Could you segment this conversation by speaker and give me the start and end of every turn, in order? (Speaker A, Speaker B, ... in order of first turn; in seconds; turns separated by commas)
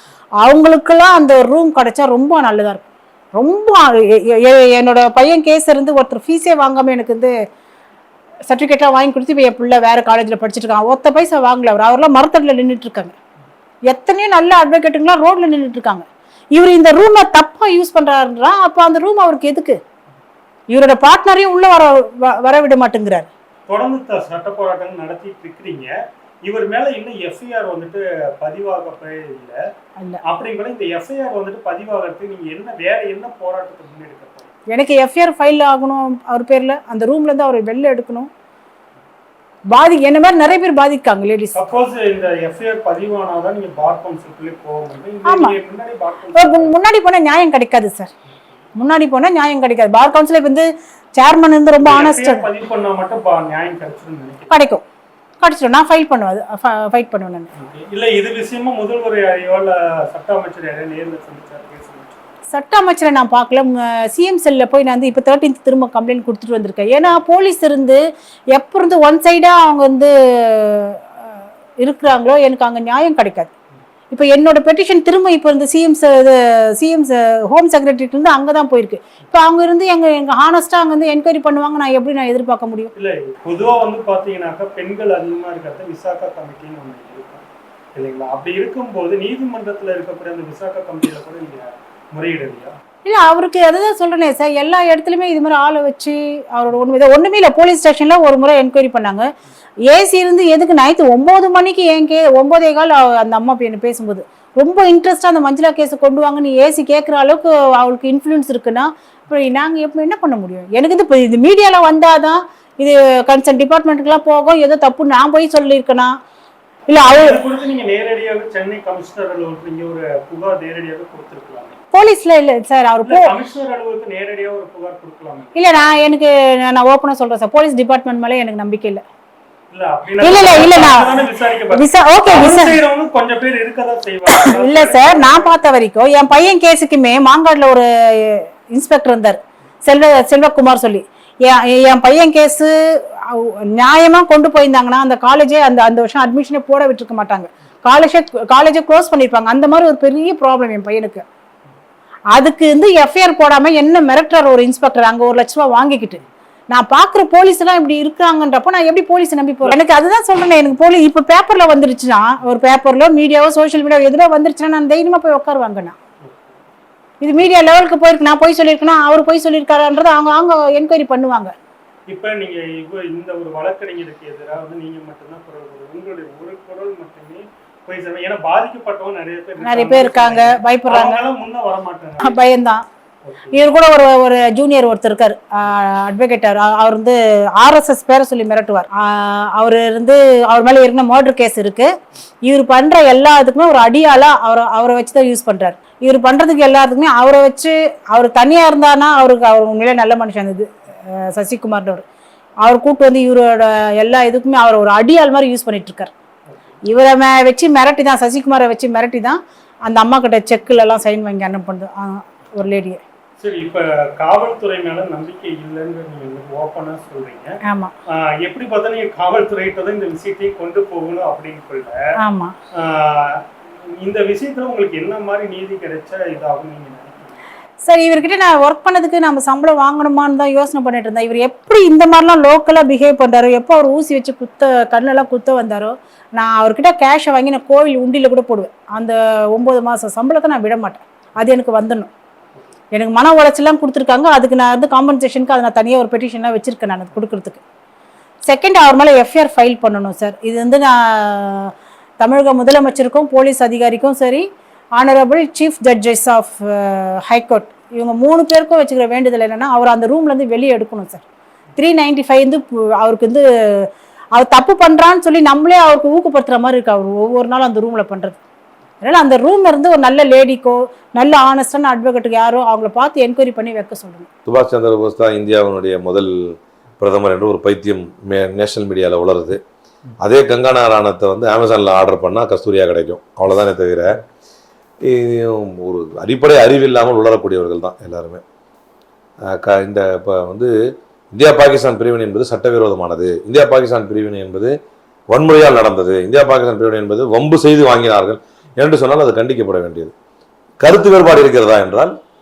Speaker A: 0.4-7.3, Speaker A: 8.5-13.2, Speaker A: 13.9-19.8, Speaker A: 20.7-23.3, Speaker B: 23.7-29.6, Speaker B: 30.2-34.5, Speaker A: 34.7-38.3, Speaker A: 39.7-41.7, Speaker B: 41.5-46.7, Speaker A: 45.3-45.6, Speaker A: 46.4-48.1, Speaker A: 48.8-52.5, Speaker B: 51.8-54.5, Speaker A: 54.5-54.8, Speaker A: 55.4-57.5, Speaker B: 57.5-62.3, Speaker A: 62.5-68.0, Speaker A: 68.5-71.1, Speaker A: 71.8-73.5, Speaker A: 74.1-82.9, Speaker B: 83.0-92.8, Speaker A: 93.0-99.3, Speaker A: 99.9-116.1, Speaker A: 116.9-117.4, Speaker B: 117.0-121.8, Speaker A: 121.9-123.3, Speaker B: 123.1-125.6, Speaker A: 125.5-129.0, Speaker B: 129.7-135.6, Speaker A: 130.2-132.8, Speaker A: 134.5-151.2, Speaker A: 152.3-166.0, Speaker B: 166.2-166.6, Speaker A: 167.2-171.5, Speaker B: 172.1-182.4, Speaker A: 179.6-181.2, Speaker A: 182.2-182.8, Speaker B: 183.2-183.6, Speaker A: 183.5-191.9, Speaker A: 192.4-202.0, Speaker A: 202.6-206.1, Speaker B: 206.5-206.7, Speaker A: 206.9-213.0, Speaker B: 213.4-217.6, Speaker A: 217.6-217.9, Speaker B: 218.1-222.0, Speaker A: 222.2-222.6, Speaker B: 222.7-227.4, Speaker A: 227.8-242.1, Speaker A: 242.9-247.6, Speaker A: 248.5-254.5, Speaker A: 255.0-261.2, Speaker A: 261.8-268.4, Speaker A: 269.0-274.3, Speaker C: 274.5-279.6, Speaker C: 280.2-284.2, Speaker C: 285.0-288.4, Speaker C: 289.4-290.7, Speaker C: 291.3-294.8, Speaker C: 295.3-300.1, Speaker C: 300.8-302.1